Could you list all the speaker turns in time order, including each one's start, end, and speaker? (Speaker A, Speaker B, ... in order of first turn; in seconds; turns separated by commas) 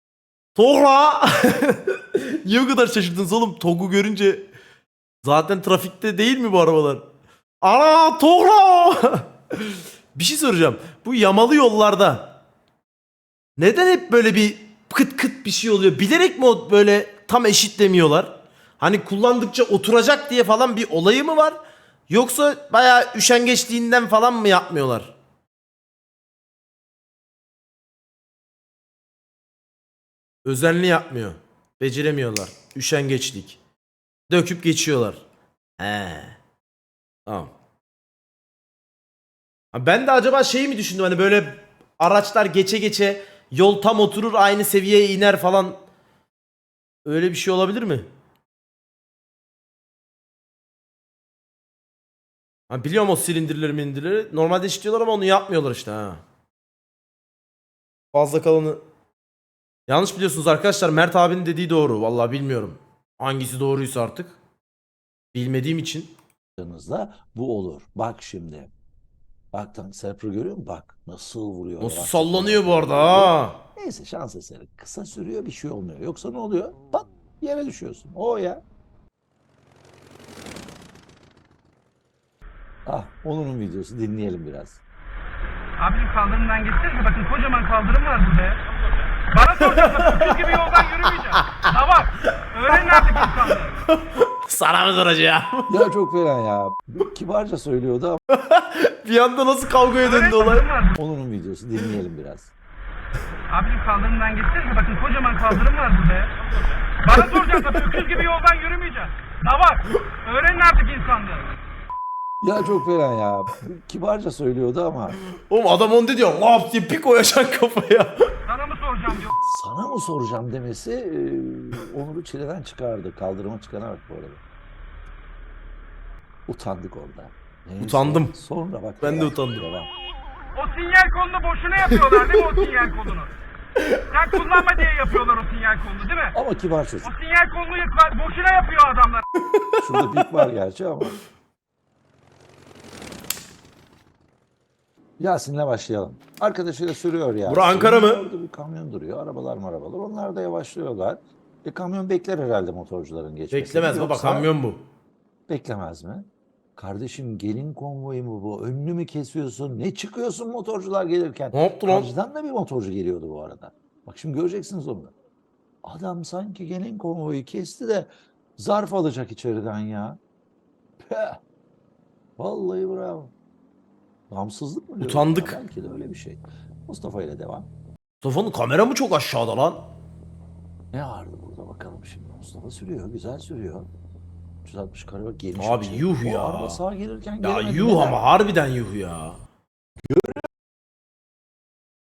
Speaker A: 0.5-4.5, Speaker A: 5.2-7.0, Speaker A: 7.6-12.4, Speaker A: 13.6-21.6, Speaker A: 22.1-25.1, Speaker A: 30.4-33.6, Speaker A: 34.3-35.2, Speaker A: 35.8-36.4, Speaker A: 37.3-37.5, Speaker A: 39.7-45.8, Speaker A: 47.0-48.1, Speaker A: 52.7-56.2, Speaker A: 58.1-58.8, Speaker A: 59.9-64.4, Speaker A: 65.3-66.1, Speaker B: 66.6-68.7, Speaker B: 69.5-78.6, Speaker A: 71.8-73.6, Speaker B: 82.8-84.8, Speaker C: 85.8-88.6, Speaker C: 89.3-93.8, Speaker A: 89.6-91.7, Speaker A: 92.7-93.3, Speaker A: 93.8-95.8, Speaker B: 95.7-98.2, Speaker A: 98.3-100.7, Speaker C: 100.0-101.0, Speaker B: 101.0-102.5, Speaker C: 103.5-106.3, Speaker C: 107.0-111.5, Speaker A: 107.1-108.2, Speaker B: 112.4-115.2, Speaker A: 115.5-118.2, Speaker C: 118.5-119.3, Speaker B: 119.4-124.4, Speaker B: 126.5-129.9, Speaker A: 127.8-128.3, Speaker A: 129.0-129.7, Speaker C: 130.6-133.3, Speaker A: 131.9-132.6, Speaker A: 133.8-134.0, Speaker C: 134.1-136.4, Speaker B: 136.3-137.1, Speaker C: 137.0-139.2, Speaker A: 139.4-140.4, Speaker B: 139.8-141.2, Speaker B: 145.2-154.5, Speaker A: 147.4-148.2, Speaker A: 153.5-154.8, Speaker B: 155.5-165.1, Speaker A: 161.5-162.1, Speaker B: 165.8-170.2, Speaker B: 171.0-171.4, Speaker B: 172.4-173.3, Speaker B: 174.3-177.7, Speaker A: 175.0-175.6, Speaker A: 178.2-179.9, Speaker B: 180.9-183.9, Speaker B: 184.6-188.2, Speaker A: 185.6-186.8, Speaker A: 187.4-189.4, Speaker B: 190.1-190.5